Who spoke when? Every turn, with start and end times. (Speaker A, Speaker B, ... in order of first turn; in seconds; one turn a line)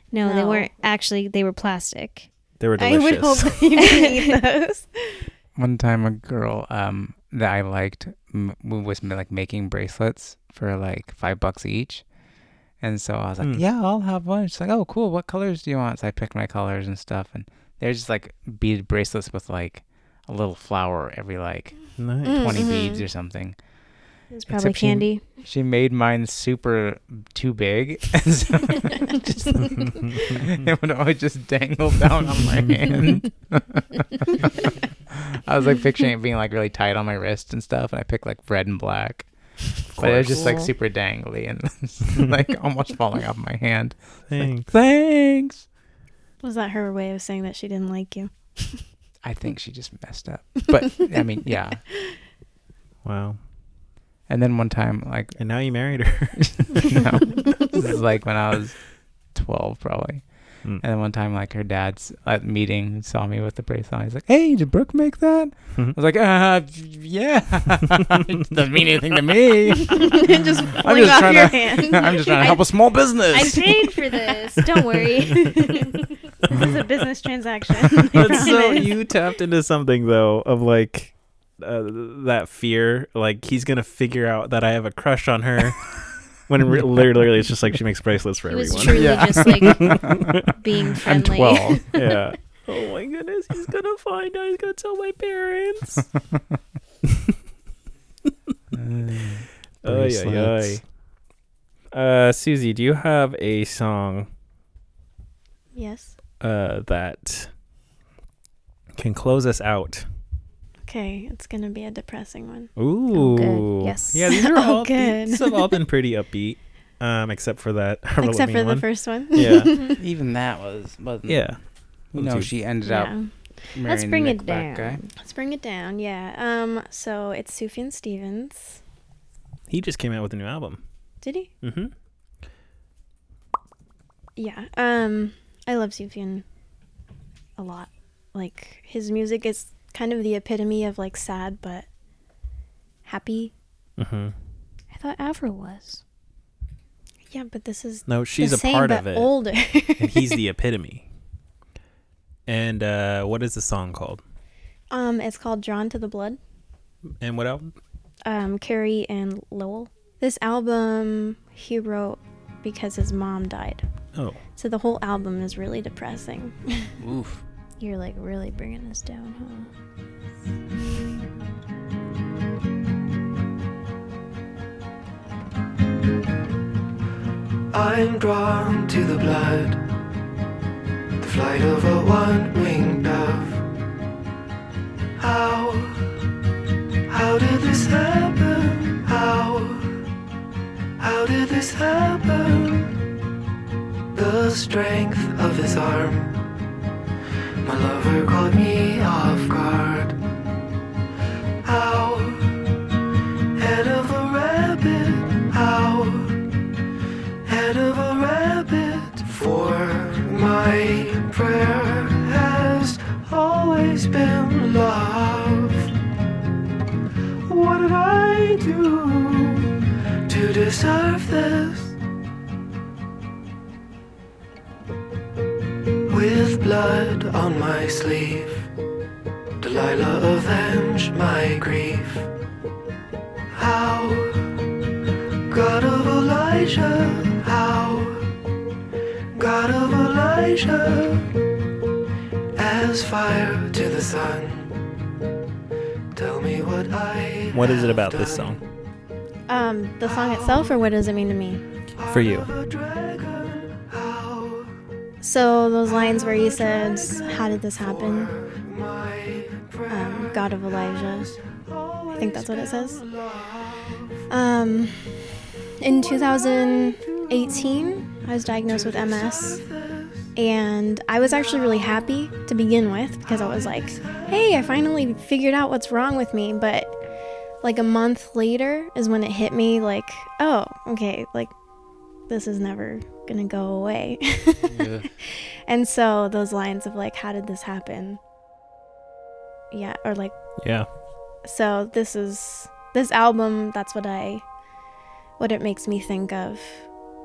Speaker A: 0.1-2.3
Speaker B: 0.2-0.7
Speaker C: 2.6-3.7
Speaker B: 2.8-5.3
Speaker A: 3.8-4.3
Speaker D: 5.6-12.1
Speaker D: 12.8-23.6
Speaker C: 22.0-22.7
Speaker B: 22.2-23.1
Speaker A: 24.3-25.2
Speaker D: 24.5-39.3
Speaker C: 29.8-30.5
Speaker C: 39.9-40.7
Speaker D: 40.0-45.7
Speaker A: 40.3-40.6
Speaker C: 44.3-44.7
Speaker B: 46.4-48.8
Speaker D: 49.2-51.8
Speaker C: 53.0-53.4
Speaker D: 54.3-55.4
Speaker C: 55.4-57.0
Speaker D: 56.4-58.8
Speaker D: 59.3-60.2
Speaker D: 60.8-73.9
Speaker B: 69.9-72.6
Speaker A: 73.3-76.0
Speaker B: 75.2-79.0
Speaker C: 76.5-76.8
Speaker C: 78.0-85.9
Speaker C: 86.4-90.5
Speaker A: 88.5-92.2
Speaker D: 88.9-90.3
Speaker D: 91.0-91.9
Speaker C: 91.9-96.1
Speaker C: 97.1-97.3
Speaker D: 98.7-100.8
Speaker C: 99.8-100.8
Speaker C: 101.9-104.3
Speaker B: 105.8-106.2
Speaker C: 106.4-107.5
Speaker C: 109.0-110.1
Speaker B: 110.8-112.7
Speaker C: 112.8-119.7
Speaker A: 113.1-114.4
Speaker B: 114.3-115.8
Speaker B: 118.2-120.0
Speaker D: 120.0-121.5
Speaker C: 121.3-122.5
Speaker D: 122.1-125.0
Speaker B: 122.8-123.3
Speaker A: 123.9-125.1
Speaker B: 125.2-128.8
Speaker C: 129.7-130.8
Speaker B: 131.2-131.5
Speaker C: 131.6-131.9
Speaker B: 134.4-136.4
Speaker B: 137.6-141.9
Speaker B: 143.1-143.5
Speaker C: 144.0-144.3
Speaker A: 144.9-146.0
Speaker B: 147.3-150.4
Speaker C: 148.1-149.3
Speaker C: 150.0-151.1
Speaker C: 152.5-154.2
Speaker B: 154.9-156.4
Speaker C: 157.2-157.7
Speaker B: 158.2-163.8
Speaker B: 164.6-166.9
Speaker D: 167.0-167.4
Speaker A: 167.8-169.7
Speaker E: 177.7-179.9
Speaker E: 181.2-183.6
Speaker E: 185.2-186.1
Speaker E: 187.1-190.0
Speaker E: 191.0-193.0
Speaker E: 194.1-196.5
Speaker E: 197.6-200.2
Speaker E: 201.6-202.8
Speaker E: 203.6-206.5
Speaker E: 207.4-215.9
Speaker E: 217.5-219.7
Speaker E: 220.3-222.0
Speaker E: 226.1-228.7
Speaker E: 229.6-232.3
Speaker E: 233.5-234.6
Speaker E: 235.5-238.3
Speaker E: 239.3-241.3
Speaker E: 242.6-244.9
Speaker E: 246.1-248.7
Speaker C: 247.5-248.6
Speaker B: 249.5-251.6
Speaker E: 250.1-250.8
Speaker E: 252.0-254.8
Speaker C: 252.1-252.5
Speaker B: 255.2-258.3
Speaker E: 255.9-264.3
Speaker B: 259.9-261.4
Speaker B: 262.1-263.1
Speaker B: 264.3-269.6
Speaker E: 266.0-267.9
Speaker E: 268.6-270.3
Speaker B: 270.4-277.0
Speaker E: 273.3-274.7
Speaker B: 277.6-281.5
Speaker B: 282.3-288.2
Speaker D: 284.7-285.1
Speaker B: 289.7-290.4
Speaker C: 290.6-290.9
Speaker B: 291.4-294.5
Speaker B: 295.4-296.9